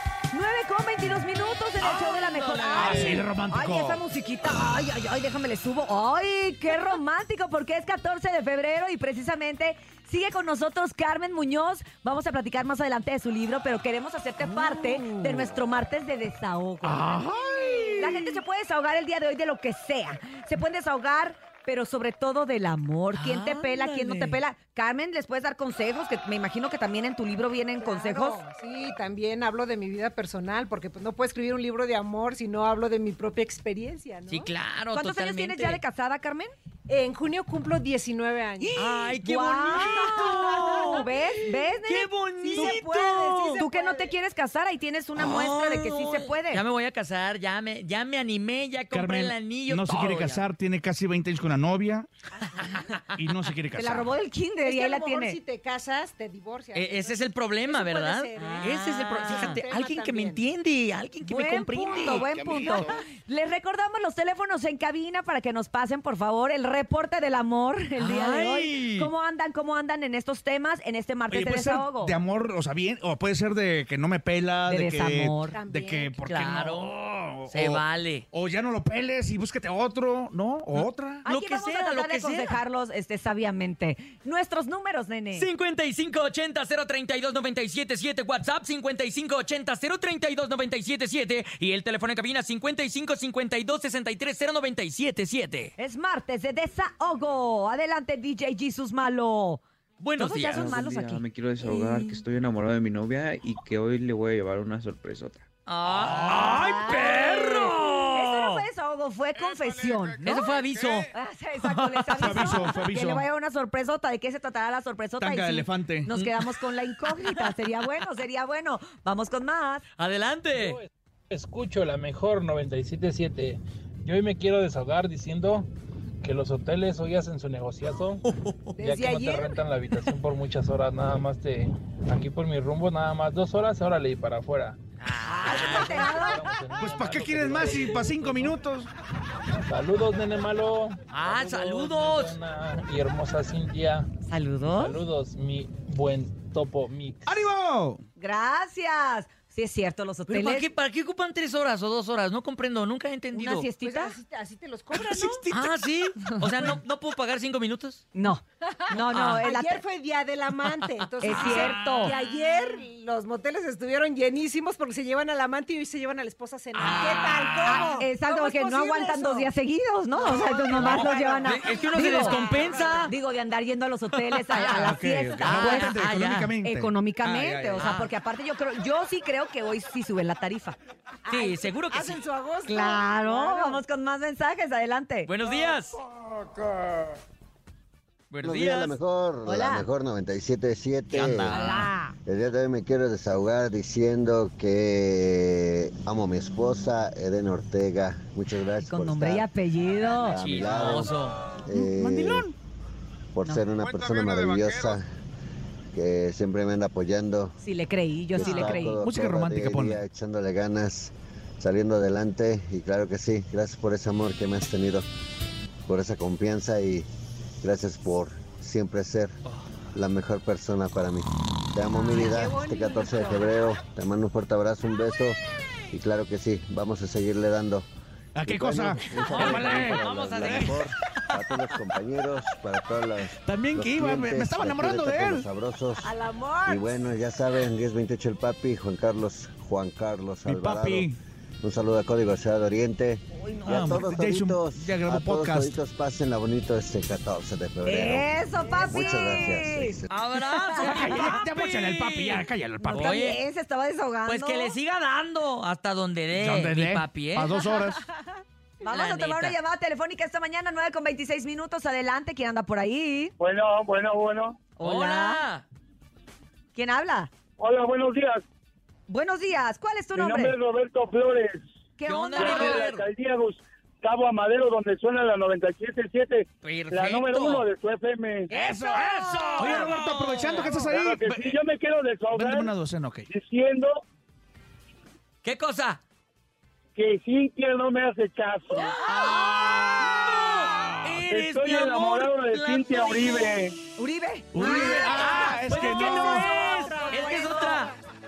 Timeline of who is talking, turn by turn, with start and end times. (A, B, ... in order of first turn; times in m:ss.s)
0:00.3-0:17.1 A
0:01.8-0:03.2 B
0:03.0-0:04.0 C
0:14.4-0:15.4 B
0:17.5-0:17.8 C
0:17.8-0:18.2 B
0:18.0-0:28.4 A
0:23.2-0:24.4 B
0:27.8-0:34.5 D
0:34.3-0:35.8 B
0:34.9-0:36.5 A
0:36.9-0:39.1 D
0:38.6-0:42.8 A
0:38.8-0:41.1 B
0:40.3-0:41.1 D
0:41.8-0:43.6 B
0:42.5-0:44.1 D
0:43.6-0:46.6 A
0:45.2-0:50.4 B
0:48.9-0:52.1 C
0:52.5-0:53.1 B
0:53.2-0:54.1 C
0:53.8-0:55.4 A
0:54.6-1:00.4 D
0:56.7-1:02.7 B
0:58.4-0:59.6 A
1:01.2-1:12.2 A
1:08.0-1:09.1 B
1:11.3-1:17.8 C
1:14.7-1:15.6 A
1:15.5-1:16.2 D
1:16.3-1:16.9 B
1:17.5-1:18.3 B
1:18.3-1:21.2 C
1:20.8-1:22.6 B
1:21.2-1:25.5 A
1:25.3-1:35.7 B
1:35.8-1:39.6 A
1:40.0-1:40.8 B
1:40.2-1:42.0 A
1:40.5-1:45.4 E
1:41.7-1:42.2 B
1:45.7-1:48.6 B
1:46.1-1:46.5 C
1:46.4-1:59.8 A
1:50.2-1:52.6 B
1:52.3-1:53.2 C
1:55.2-1:56.1 C
1:56.1-1:56.4 B
2:00.0-2:00.8 B
2:00.5-2:05.7 F
2:06.2-2:08.2 F
2:08.3-2:08.7 B
2:08.8-2:09.5 A
2:08.8-2:14.8 F
2:15.0-2:16.0 B
2:15.2-2:16.5 A
2:15.4-2:18.6 F
2:16.8-2:18.9 C
2:19.6-2:24.1 F
2:21.1-2:22.4 B
2:24.2-2:25.0 A
2:24.8-2:27.4 F
2:27.3-2:28.0 C
2:28.2-2:30.7 A
2:30.3-2:33.7 B
2:33.3-2:34.2 A
2:33.8-2:35.5 D
2:34.9-2:35.5 C
2:35.5-2:38.0 B
2:36.3-2:36.7 A
2:38.2-2:39.8 A
2:38.6-2:49.5 D
2:39.1-2:39.4 B
2:40.7-2:41.8 B
2:41.2-2:42.2 A
2:46.7-2:47.9 B
2:47.6-2:56.0 A
2:50.1-2:53.1 D
2:50.8-2:53.1 B
2:54.1-2:54.7 B
2:54.7-2:57.8 C
2:55.4-2:56.5 B
2:56.6-3:00.8 A
2:57.8-2:58.1 B
3:01.2-3:03.8 D
3:01.3-3:02.2 B
3:02.7-3:05.3 A
3:05.3-3:06.0 B
3:08.3-3:09.0 B
3:08.4-3:11.6 G
3:09.4-3:09.9 A
3:11.1-3:11.9 B
3:11.5-3:12.2 A
3:12.2-3:19.5 G
3:18.8-3:20.4 A
3:20.2-3:22.5 G
3:20.3-3:21.4 B
3:21.7-3:22.5 A
3:23.3-3:25.0 G
3:25.9-3:27.6 G
3:27.6-3:29.0 A
3:28.3-3:35.1 G
3:28.5-3:30.0 C
3:35.9-3:37.1 G
3:37.6-3:39.4 G
3:39.9-3:45.4 G
3:42.1-3:43.5 D
3:45.9-3:47.9 G
3:48.4-3:50.7 C
3:48.5-3:56.1 G
3:49.2-3:50.9 B
3:53.4-3:55.5 C
3:56.0-3:57.0 A
3:56.7-4:01.1 G
4:00.5-4:01.2 C
4:01.6-4:08.3 G
4:03.4-4:04.1 A
4:03.7-4:05.8 C
4:07.8-4:11.2 A
4:08.8-4:10.2 G
4:10.1-4:13.4 B
4:10.9-4:13.2 C
4:12.8-4:14.8 A
4:14.3-4:17.5 B
4:16.4-4:18.0 C
4:17.6-4:23.3 A
4:18.8-4:19.6 B
4:23.4-4:24.6 H
4:24.8-4:25.4 A
4:24.8-4:25.6 B
4:26.7-4:27.3 A
4:27.6-4:28.4 H
4:29.1-4:30.6 A
4:30.2-4:31.6 H
4:32.0-4:32.8 A
4:32.1-4:33.1 B
4:32.4-4:38.5 H
4:36.6-4:37.7 B
4:38.5-4:40.9 B
4:38.6-4:41.6 C
4:41.0-4:42.7 H
4:42.3-4:43.3 C
4:43.3-4:44.0 H
4:45.4-4:46.0 B
4:47.0-4:49.0 H
4:48.9-4:50.6 A
4:49.1-4:53.6 B
4:51.3-4:53.8 H
4:54.0-4:57.9 A
4:54.5-4:56.4 C
4:54.6-4:57.9 B